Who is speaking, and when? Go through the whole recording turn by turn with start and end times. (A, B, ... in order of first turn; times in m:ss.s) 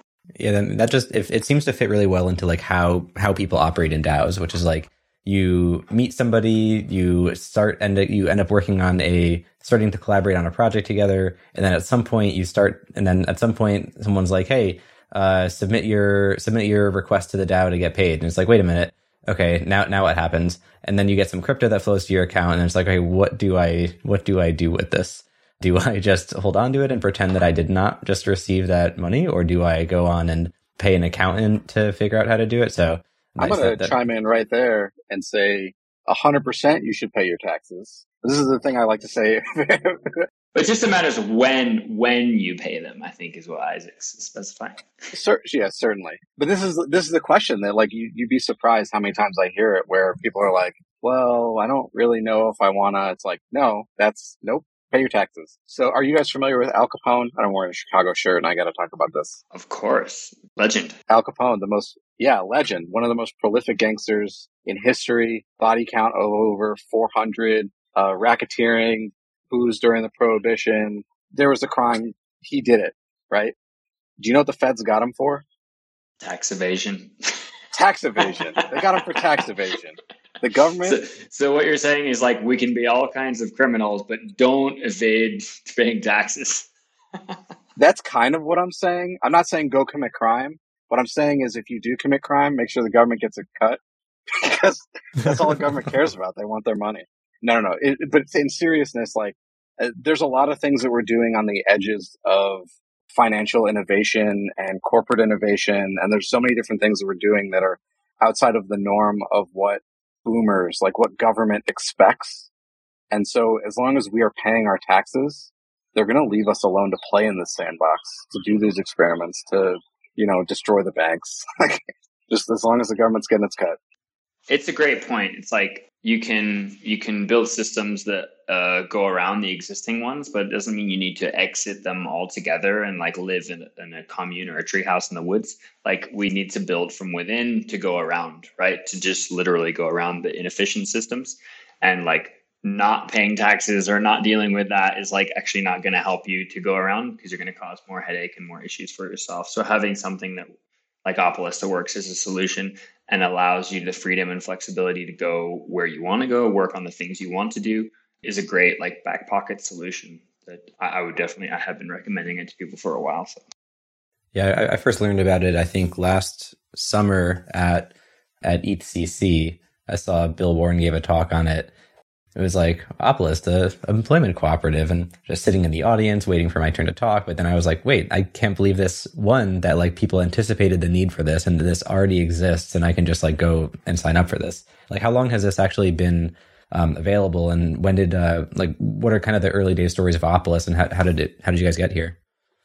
0:00.4-0:33.9 A
0:33.4-0:40.2 B
0:40.5-0:44.8 C
0:45.1-0:59.4 B
0:59.5-1:01.0 C
1:01.1-1:13.5 B
1:14.2-1:15.4 B
1:16.2-1:17.1 C
1:17.7-1:21.0 B
1:18.8-1:19.2 C
1:20.8-1:26.7 C
1:27.8-1:52.5 B
1:53.1-2:03.8 B
2:04.5-2:30.5 C
2:31.0-2:43.4 C
2:44.3-2:47.9 A
2:48.4-2:51.7 A
2:52.3-3:12.2 A